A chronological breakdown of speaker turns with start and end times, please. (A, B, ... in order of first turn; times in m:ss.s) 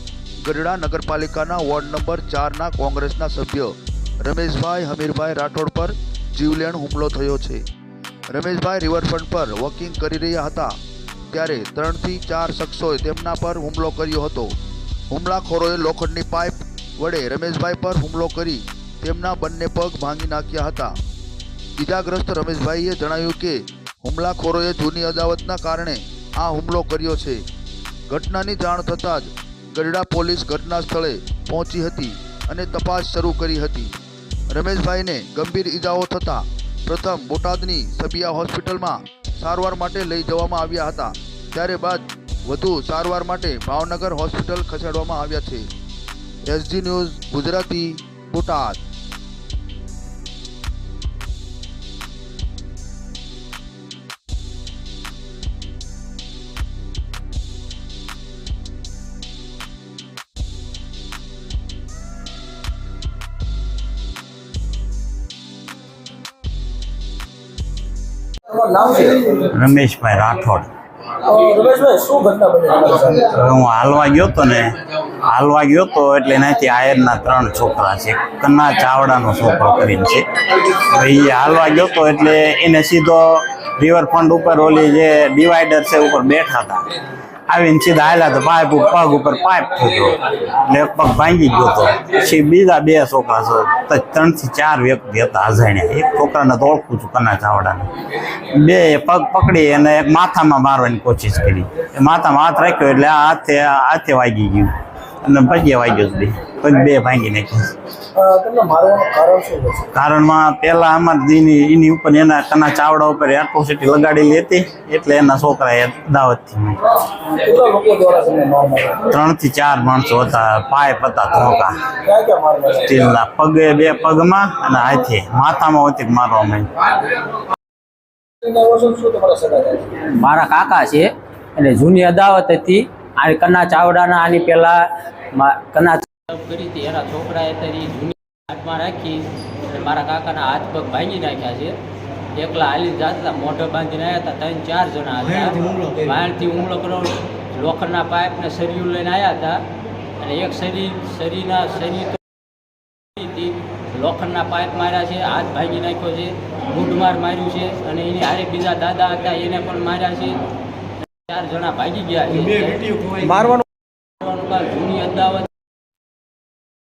0:00.4-0:07.6 A
0:08.3-0:10.8 A
0:11.3-0:14.5 A
0:15.1-0:21.0 A
0:21.8-0:27.4 A
0:28.1-0:33.9 A
0:34.5-0:45.7 A
0:46.5-0:48.8 A
1:08.5-1:09.5 B
1:09.5-1:10.7 C
1:11.2-1:13.3 B
1:13.2-1:26.8 C
1:27.5-1:44.7 C
1:45.2-1:47.7 C
1:48.1-1:49.9 B
1:49.9-1:56.9 C
1:57.2-1:59.1 B
1:59.0-2:01.8 C
2:01.9-2:02.9 B
2:02.8-2:06.7 C
2:08.4-2:09.9 B
2:10.0-2:21.8 D
2:22.3-2:29.6 D
2:30.2-2:32.3 D
2:33.1-2:40.4 D
2:41.1-2:43.6 D
2:44.2-2:45.5 D